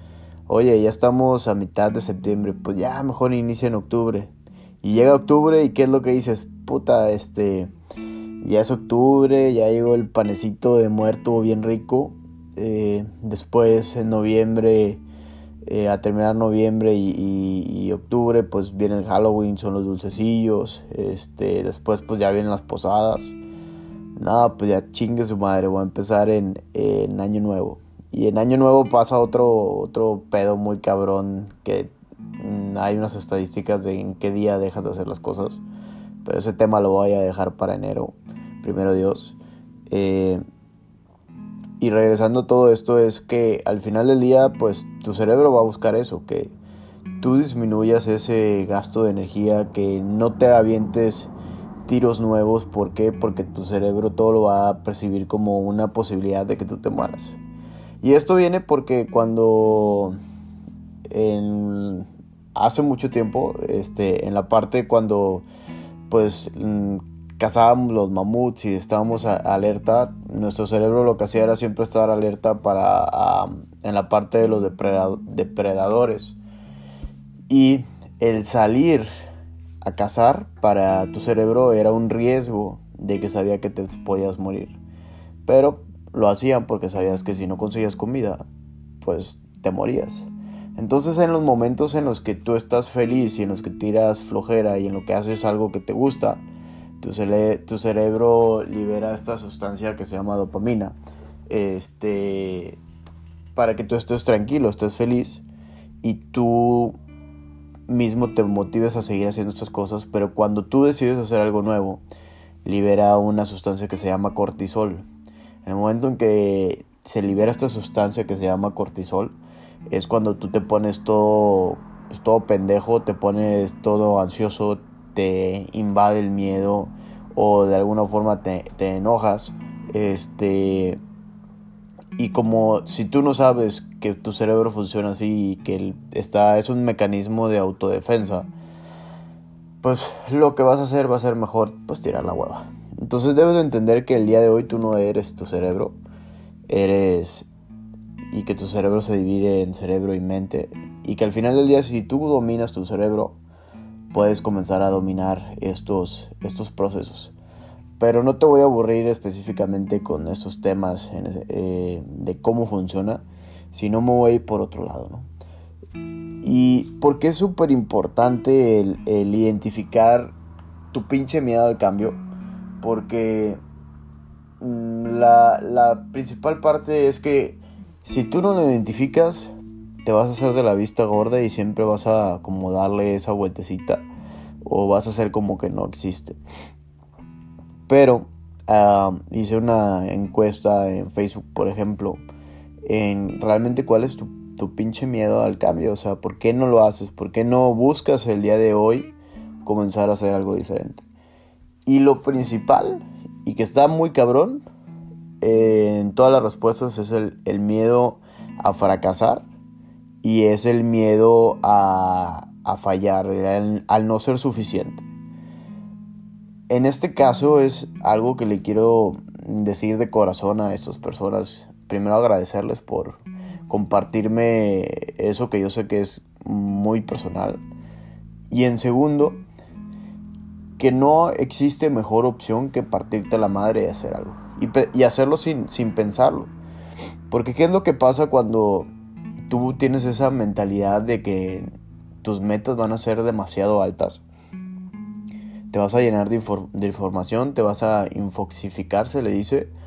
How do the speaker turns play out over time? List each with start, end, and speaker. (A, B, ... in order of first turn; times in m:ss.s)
0:00.5-0:04.3 A
0:04.8-0:07.7 A
0:08.4-0:15.0 A
0:15.6-0:23.3 A
0:24.2-0:35.6 A
0:36.2-0:39.4 A
0:39.9-0:40.4 A
0:41.8-0:46.5 A
0:47.2-0:51.3 A
0:51.8-0:57.4 A
0:58.0-1:00.2 A
1:01.1-1:05.4 A
1:06.1-1:16.4 A
1:17.5-1:19.1 A
1:19.8-1:24.8 A
1:25.4-1:28.4 A
1:29.0-1:36.4 A
1:37.0-1:40.9 A
1:41.5-1:42.8 A
1:43.6-1:45.4 A
1:46.0-1:47.0 A
1:47.9-1:52.0 A
1:52.6-1:55.0 A
1:55.6-1:59.4 A
1:59.9-2:11.0 A
2:12.2-2:18.5 A
2:19.8-2:26.0 A
2:26.7-2:27.5 A
2:28.3-2:33.4 A
2:34.1-2:37.3 A
2:38.0-2:45.3 A
2:46.4-2:50.3 A
2:50.9-2:52.2 A
2:52.8-2:53.6 A
2:54.6-2:59.5 A
3:00.0-3:04.0 A
3:04.6-3:06.4 A
3:07.9-3:12.2 A
3:12.8-3:21.0 A
3:21.8-3:24.6 A
3:25.4-3:29.4 A
3:30.2-3:35.1 A
3:36.7-3:47.6 A
3:48.5-3:49.4 A
3:50.8-3:56.5 A
3:57.3-3:58.9 A
3:59.5-4:01.7 A
4:02.2-4:04.2 A
4:05.7-4:09.7 A